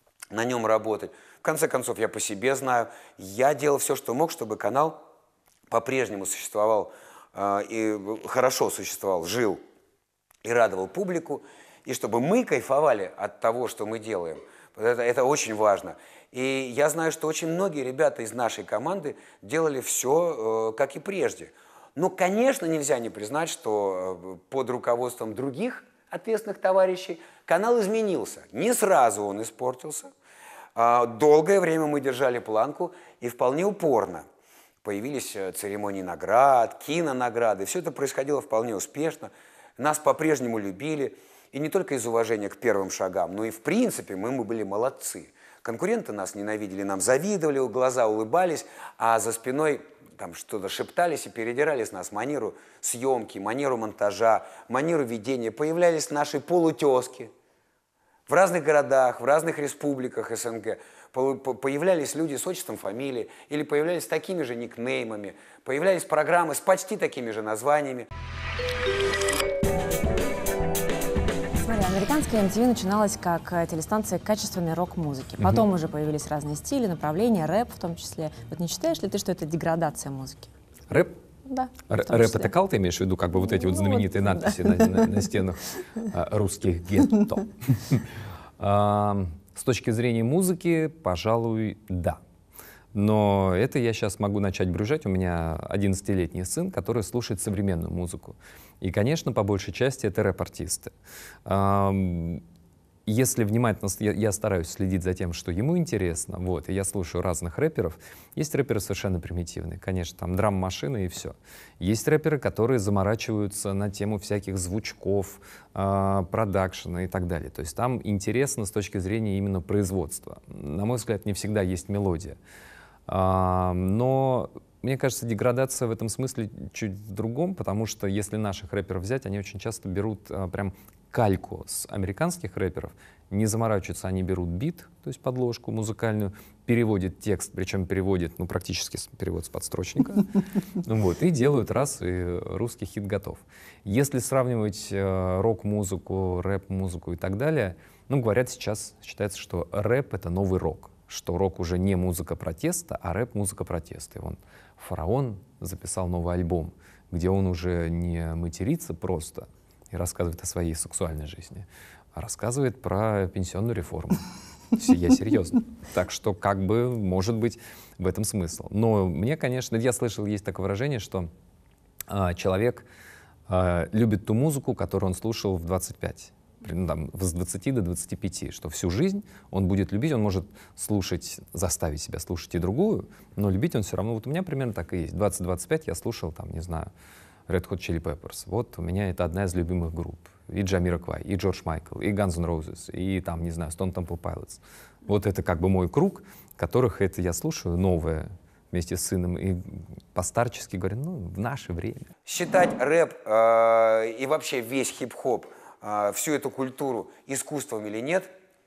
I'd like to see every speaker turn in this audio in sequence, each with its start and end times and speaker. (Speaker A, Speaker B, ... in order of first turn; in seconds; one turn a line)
Speaker A: 0.3-5.0
Speaker A: 5.7-9.6
Speaker A: 10.4-30.1
Speaker A: 30.8-34.2
Speaker A: 34.8-57.3
Speaker A: 58.3-68.1
Speaker B: 71.6-80.5
Speaker C: 80.9-81.2
Speaker B: 81.5-82.5
Speaker C: 81.9-88.1
Speaker B: 83.6-85.1
Speaker C: 88.6-92.2
Speaker C: 92.9-100.9
Speaker C: 101.5-102.4
Speaker C: 103.1-122.4
Speaker C: 123.1-171.3
Speaker C: 172.1-172.9
Speaker C: 173.5-186.9
Speaker C: 187.5-202.1
Speaker A: 202.3-208.3